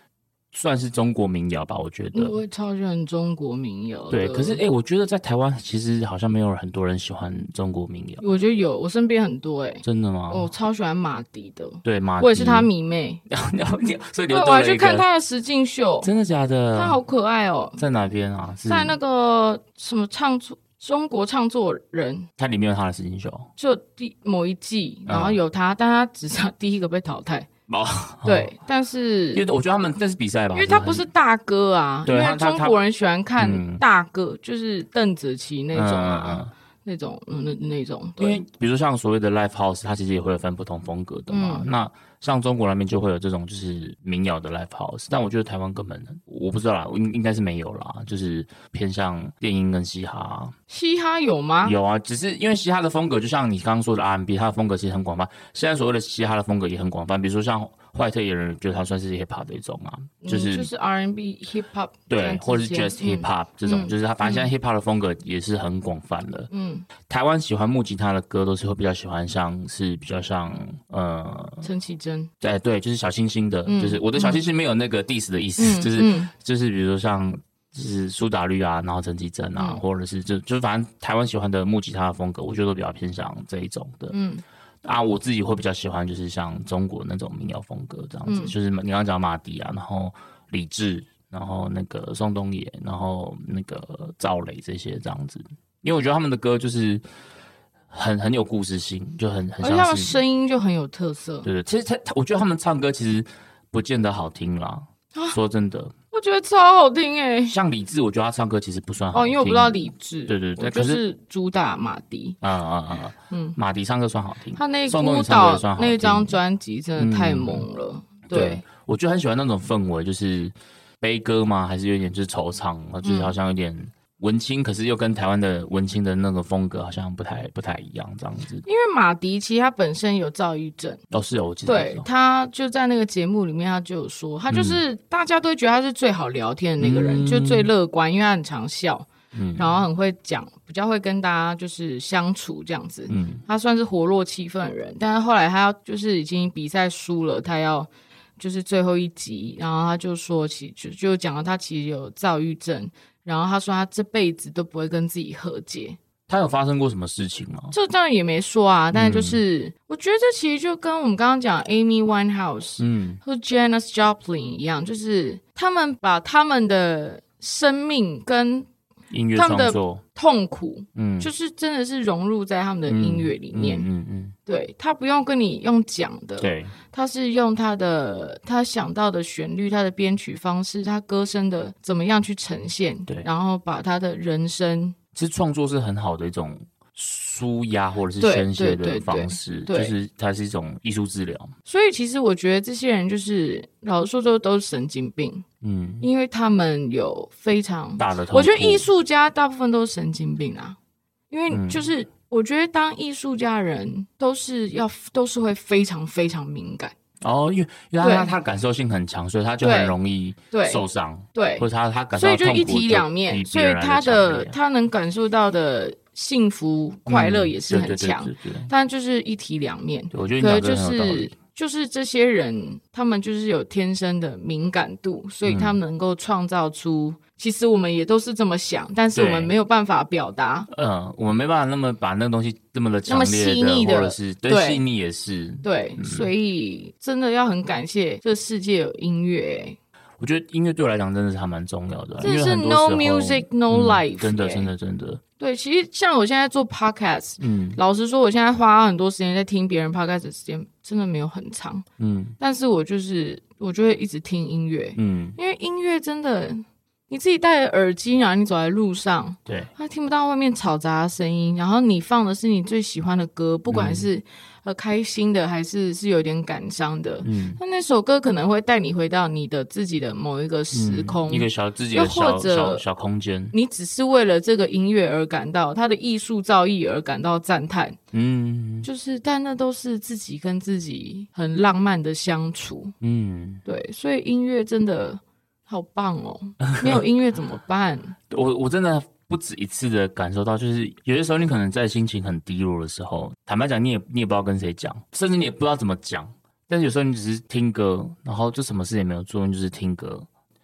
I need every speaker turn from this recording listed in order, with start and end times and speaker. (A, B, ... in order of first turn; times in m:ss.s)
0:00.5-0:02.4 A
0:02.1-0:04.6 B
0:04.1-0:08.2 A
0:08.2-0:13.2 B
0:09.8-0:10.5 A
0:11.8-0:12.7 A
0:13.3-0:15.0 A
0:14.3-0:16.1 B
0:16.0-0:17.0 A
0:16.7-0:17.8 B
0:17.8-0:19.0 A
0:18.7-0:22.3 B
0:22.4-0:23.5 A
0:23.6-0:27.5 B
0:25.1-0:25.4 A
0:27.7-0:28.5 A
0:28.2-0:29.4 B
0:29.3-0:31.1 A
0:30.5-0:38.4 B
0:32.0-0:32.8 A
0:33.4-0:33.8 A
0:35.7-0:36.5 A
0:38.2-0:50.5 A
0:41.3-0:41.7 B
0:50.7-0:51.8 B
0:51.6-1:00.7 A
1:00.2-1:04.5 B
1:02.1-1:06.5 A
1:06.5-1:06.9 B
1:07.1-1:11.7 A
1:11.6-1:12.3 B
1:12.4-1:24.2 A
1:13.7-1:14.4 B
1:15.6-1:16.3 B
1:24.1-1:24.4 B
1:24.8-1:37.0 A
1:28.3-1:28.5 B
1:37.9-1:40.2 A
1:39.6-1:41.5 B
1:41.4-1:45.9 A
1:46.1-1:47.6 B
1:47.5-1:51.0 A
1:49.1-1:52.4 B
1:52.4-1:56.4 A
1:53.3-1:53.6 B
1:54.6-1:58.6 B
1:57.0-1:57.7 A
1:58.3-2:08.6 A
2:03.0-2:03.4 B
2:08.7-2:11.0 B
2:11.1-2:12.0 A
2:11.7-2:36.0 B
2:14.5-2:14.8 A
2:16.8-2:17.7 A
2:19.3-2:19.8 A
2:23.1-2:23.4 A
2:36.3-2:37.7 A
2:37.7-2:48.7 B
2:38.9-2:39.4 A
2:42.8-2:43.2 A
2:49.1-2:50.0 A
2:49.4-2:53.9 B
2:51.0-2:51.3 A
2:52.9-2:54.4 A
2:54.5-3:05.0 B
2:56.4-2:56.8 A
3:05.2-3:11.5 A
3:08.2-3:09.9 B
3:11.7-3:15.4 B
3:15.6-3:16.0 A
3:16.0-3:20.8 B
3:18.0-3:18.9 A
3:21.3-3:26.9 B
3:21.5-3:21.9 A
3:27.2-3:34.6 A
3:28.0-3:28.3 B
3:29.6-3:30.0 B
3:30.5-3:30.8 B
3:31.3-3:50.7 B
3:37.1-3:38.7 A
3:40.1-3:41.3 A
3:45.5-3:45.8 A
3:49.1-3:49.5 A
3:50.7-3:56.3 A
3:53.1-3:54.8 B
3:55.6-3:59.8 B
4:00.2-4:05.2 A
4:02.2-4:04.7 B
4:05.4-4:11.8 B
4:07.4-4:07.8 A
4:12.0-4:12.4 A
4:12.4-4:32.8 B
4:15.0-4:15.4 A
4:23.7-4:24.1 A
4:27.2-4:27.6 A
4:30.7-4:33.5 A
4:33.5-4:38.0 B
4:38.1-4:38.9 A
4:38.8-4:42.9 B
4:43.0-4:43.6 A
4:43.6-4:48.2 B
4:46.7-4:47.0 A
4:48.3-5:00.3 A